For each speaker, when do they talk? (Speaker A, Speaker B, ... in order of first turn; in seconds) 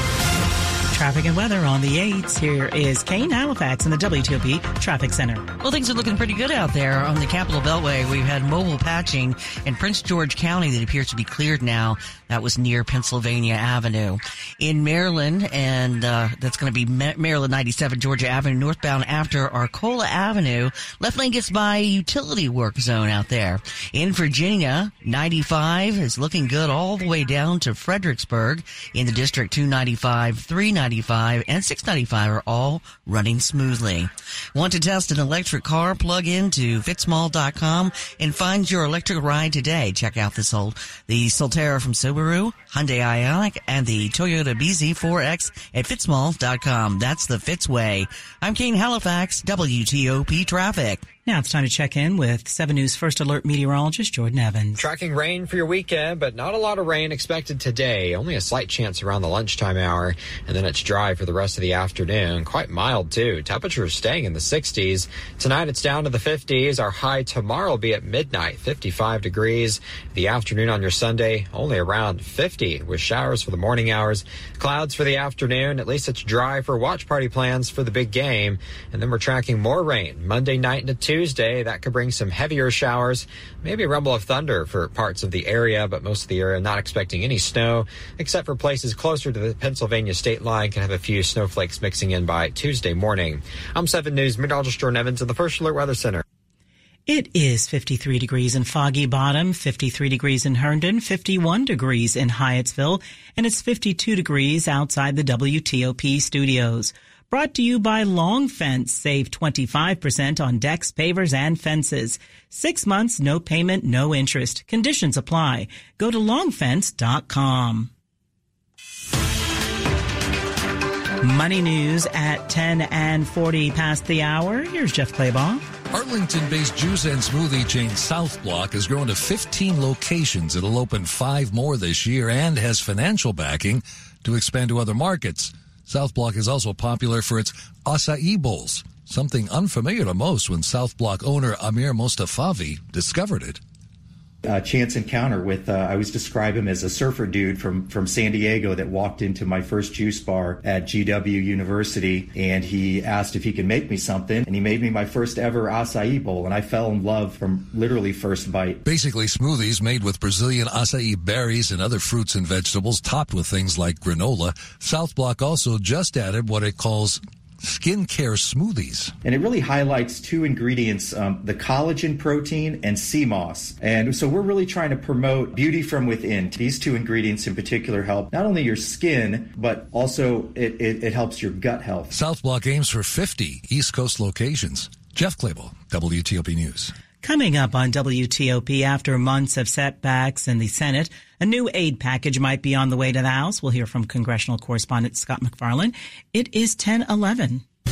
Speaker A: 0.9-5.5, 51.2-54.9, 97.1-117.9, 121.2-125.7, 187.2-197.6
Speaker B: 5.6-51.0
Speaker C: 54.8-96.2
Speaker D: 125.9-143.6, 158.8-169.1, 182.1-186.9
Speaker E: 144.4-158.8, 169.2-182.1